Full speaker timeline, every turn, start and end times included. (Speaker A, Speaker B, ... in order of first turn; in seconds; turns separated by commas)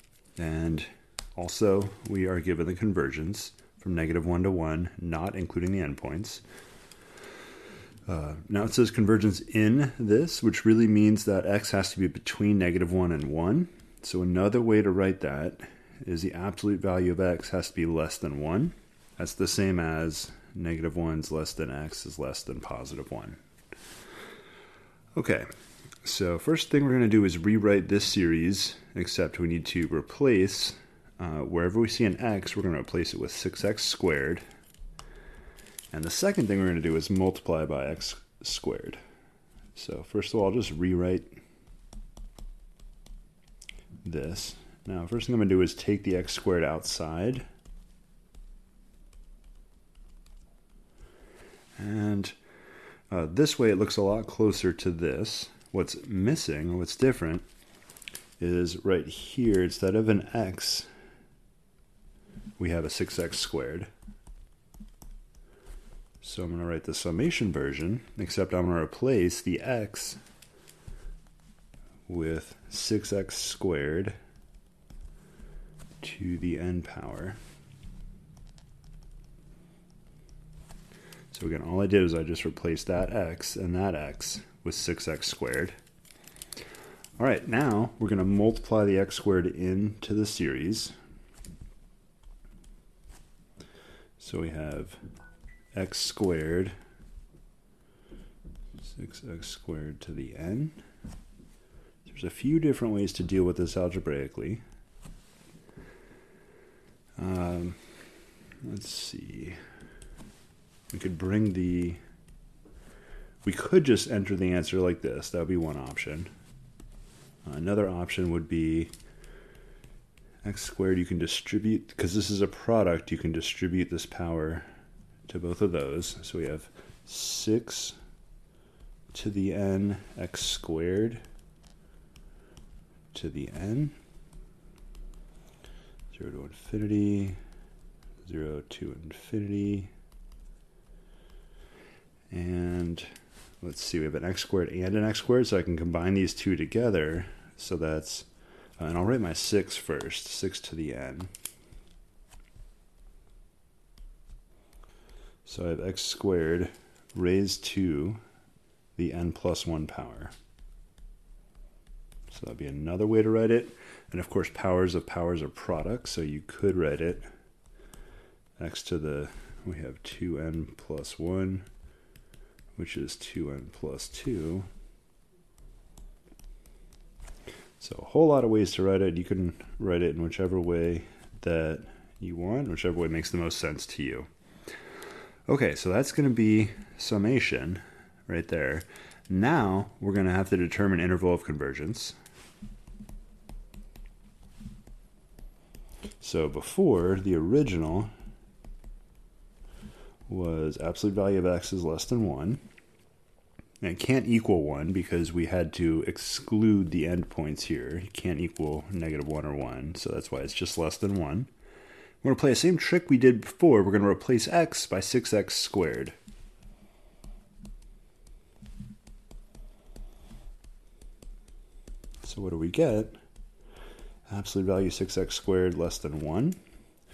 Speaker A: 0.4-6.4, Speaker A: 8.1-23.4, Speaker A: 25.1-25.5, Speaker A: 26.0-34.4, Speaker A: 35.9-39.0, Speaker A: 39.8-41.3, Speaker A: 44.0-47.5, Speaker A: 51.8-52.3, Speaker A: 53.1-57.5, Speaker A: 58.4-60.9, Speaker A: 62.6-63.9, Speaker A: 66.2-70.2, Speaker A: 72.1-74.2, Speaker A: 76.0-77.4, Speaker A: 81.3-85.8, Speaker A: 87.2-91.0, Speaker A: 94.2-95.0, Speaker A: 95.8-96.7, Speaker A: 98.8-100.8, Speaker A: 102.1-104.6, Speaker A: 107.2-107.8, Speaker A: 108.6-109.6, Speaker A: 110.9-112.0, Speaker A: 113.4-116.3, Speaker A: 117.5-118.9, Speaker A: 120.4-124.7, Speaker A: 125.3-128.0, Speaker A: 129.1-131.2, Speaker A: 133.1-133.9, Speaker A: 136.1-137.4, Speaker A: 138.2-139.9, Speaker A: 142.3-143.1, Speaker A: 143.6-151.3, Speaker A: 155.4-158.2, Speaker A: 158.9-160.3, Speaker A: 162.3-167.2, Speaker A: 168.6-171.7, Speaker A: 172.8-174.7, Speaker A: 177.8-184.3, Speaker A: 185.5-192.2, Speaker A: 196.2-198.1, Speaker A: 200.3-202.6, Speaker A: 203.8-211.5, Speaker A: 212.2-216.1, Speaker A: 222.2-223.2, Speaker A: 224.3-226.6